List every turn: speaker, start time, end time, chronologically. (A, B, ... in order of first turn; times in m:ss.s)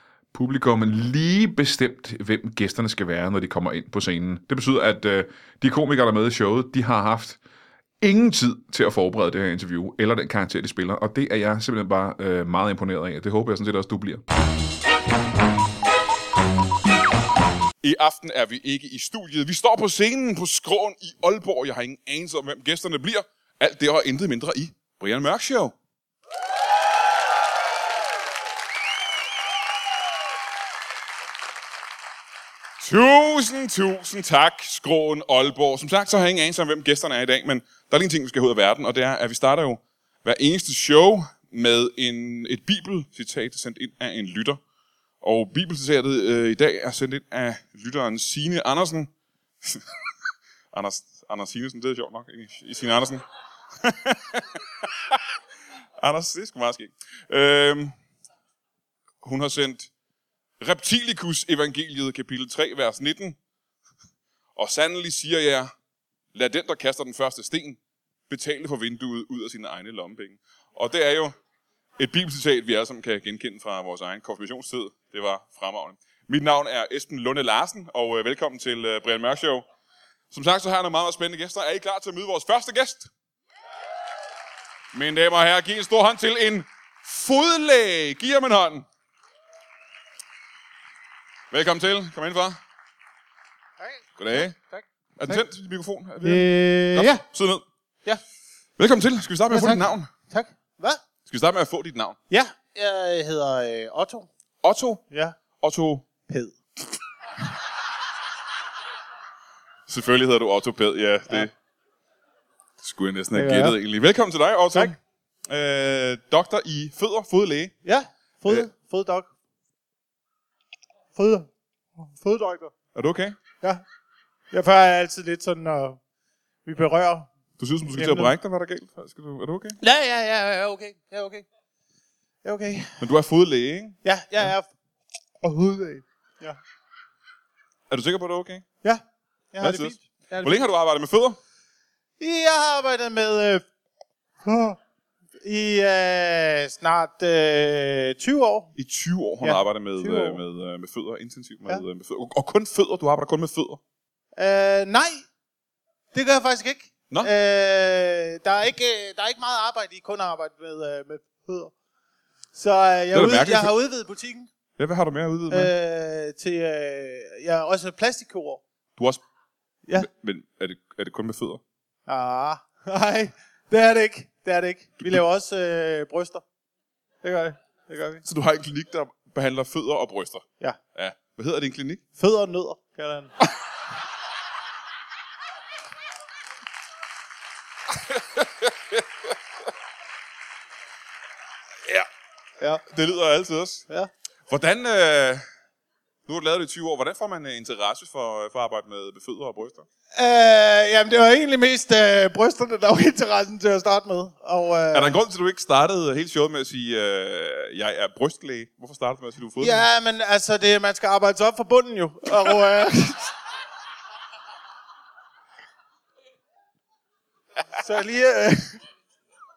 0:00.3-0:07.4 A
0:08.0-0:14.2 A
0:17.8-0:25.7 A
0:32.8-0:44.6 A
0:45.2-0:49.1 A
0:50.7-0:53.2 A
0:53.8-0:54.6 A
0:56.0-0:57.9 A
0:59.2-0:59.9 A
1:00.6-1:03.4 A
1:04.6-1:05.7 A
1:06.3-1:11.4 A
1:12.0-1:19.6 A
1:20.3-1:23.1 A
1:24.9-1:28.8 A
1:31.5-1:32.6 A
1:33.8-1:35.4 B
1:34.2-1:34.6 A
1:35.2-1:37.6 A
1:36.2-1:37.2 B
1:38.8-1:40.1 A
1:39.5-1:41.0 B
1:41.2-1:42.2 A
1:42.3-1:44.3 B
1:44.6-1:45.0 A
1:45.1-1:45.4 B
1:45.6-1:46.0 A
1:46.3-1:46.5 B
1:49.9-1:51.5 A
1:52.8-1:57.7 A
1:53.3-1:53.8 B
1:57.8-1:59.3 B
2:01.2-2:02.7 B
2:02.9-2:03.4 A
2:04.5-2:06.0 B
2:06.6-2:07.3 B
2:07.6-2:09.8 A
2:07.9-2:08.3 B
2:09.8-2:11.4 B
2:12.4-2:13.0 B
2:13.0-2:14.5 A
2:14.0-2:14.7 B
2:15.4-2:16.6 B
2:17.9-2:18.6 A
2:19.5-2:20.7 B
2:19.6-2:21.4 A
2:22.2-2:23.6 B
2:24.4-2:24.8 B
2:25.4-2:28.7 B
2:28.8-2:33.8 A
2:29.4-2:30.4 B
2:34.4-2:35.2 B
2:36.1-2:41.7 B
2:42.5-2:44.5 B
2:43.1-2:43.7 A
2:44.8-2:45.7 A
2:45.5-2:48.6 B
2:50.0-2:51.6 A
2:52.1-2:56.4 B
2:57.2-2:58.2 B
2:58.2-3:00.4 A
3:00.9-3:02.0 A
3:02.2-3:03.3 B
3:08.3-3:09.0 A
3:12.9-3:13.8 A
3:14.5-3:15.4 A
3:16.3-3:19.8 A
3:20.1-3:25.2 B
3:24.9-3:29.8 A
3:29.6-3:33.3 B
3:37.8-3:38.8 B